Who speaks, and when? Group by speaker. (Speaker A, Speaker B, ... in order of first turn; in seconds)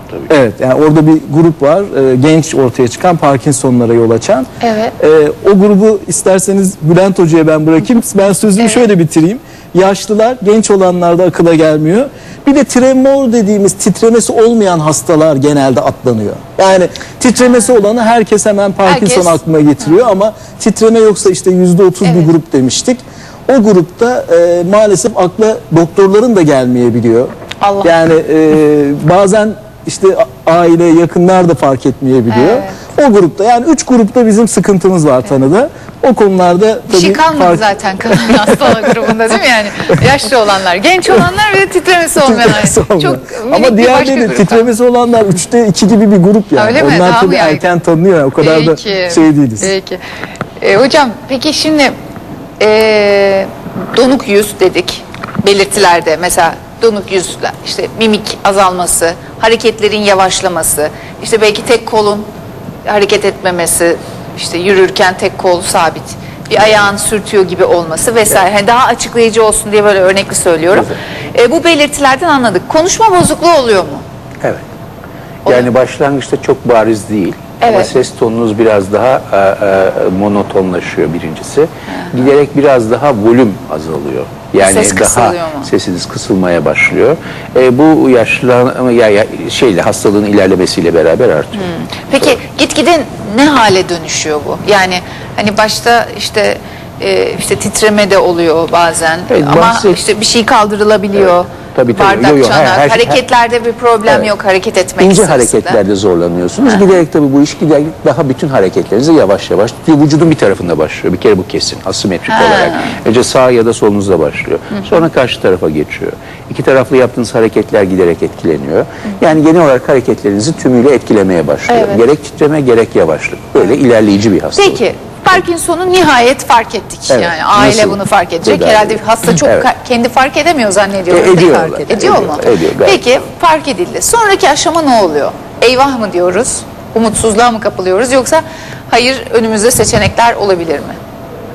Speaker A: 0.3-4.5, 5.0-27.3, 27.8-38.9, 42.2-49.7
Speaker B: 4.6-4.9, 8.6-8.9, 18.9-19.4, 22.0-22.3, 27.6-27.9, 32.3-32.8, 36.9-44.7, 46.5-47.6, 48.4-50.0, 50.6-51.9, 52.6-62.3, 62.8-74.0, 75.5-75.7, 77.6-77.9, 81.9-82.3, 84.6-85.7, 91.5-105.8, 106.7-107.0, 112.3-113.0, 114.8-115.0, 121.7-122.0, 124.5-141.0
Speaker C: 70.7-71.0, 75.5-92.3, 99.3-100.0, 101.1-103.2, 105.0-124.8, 127.1-129.7, 131.1-133.0